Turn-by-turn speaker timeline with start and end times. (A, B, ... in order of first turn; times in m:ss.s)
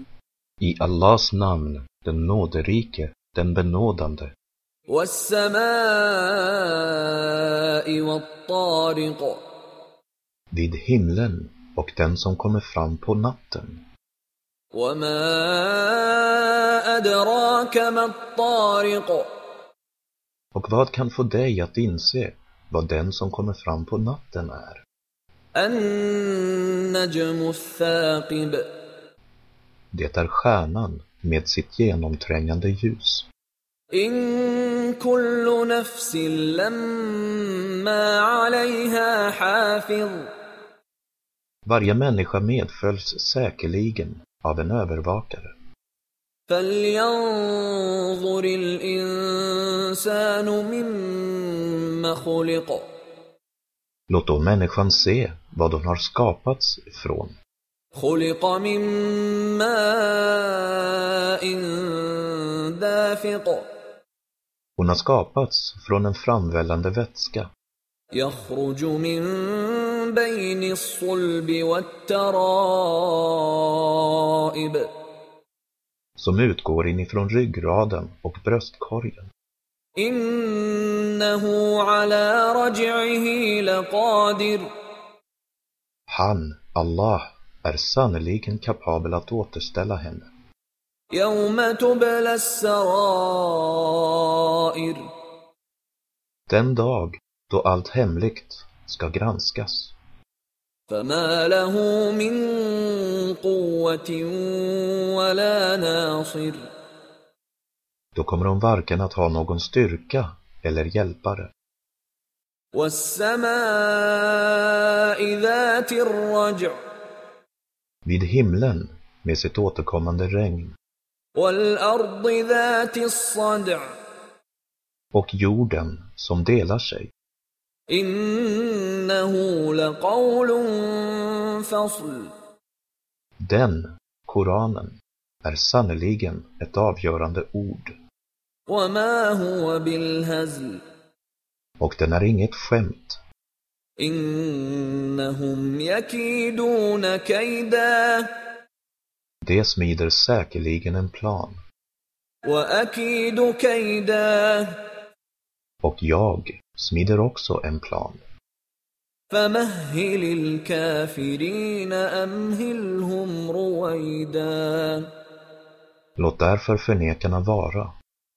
0:00.6-0:04.3 A
0:04.9-0:09.4 B
0:10.5-0:13.8 A
0:14.7-0:19.3 B
0:20.5-0:24.8 A
0:25.6-0:28.6 B
0:29.9-0:33.3 A
0:33.9-0:40.3 B
0:41.6-0:45.5 A
0:46.5-0:52.8 B
0:54.1-0:57.3 A
0:57.9-1:03.7 B
1:04.8-1:07.5 A
1:08.1-1:14.9 B
1:16.2-1:19.3 A
1:20.0-1:24.7 B
1:26.1-1:30.3 A
1:31.1-1:35.0 B
1:36.5-1:39.9 A
1:40.9-1:46.6 B
1:48.1-1:51.5 A
1:52.7-1:56.8 B
1:58.0-2:00.7 A
2:01.3-2:03.9 B
2:05.1-2:07.1 A
2:07.9-2:12.3 B
2:13.4-2:17.9 A
2:18.7-2:20.8 B
2:21.8-2:23.2 A
2:24.0-2:28.3 B
2:29.4-2:31.6 A
2:32.4-2:34.8 B
2:35.8-2:38.2 A
2:39.3-2:45.1 B
2:46.2-2:47.9 A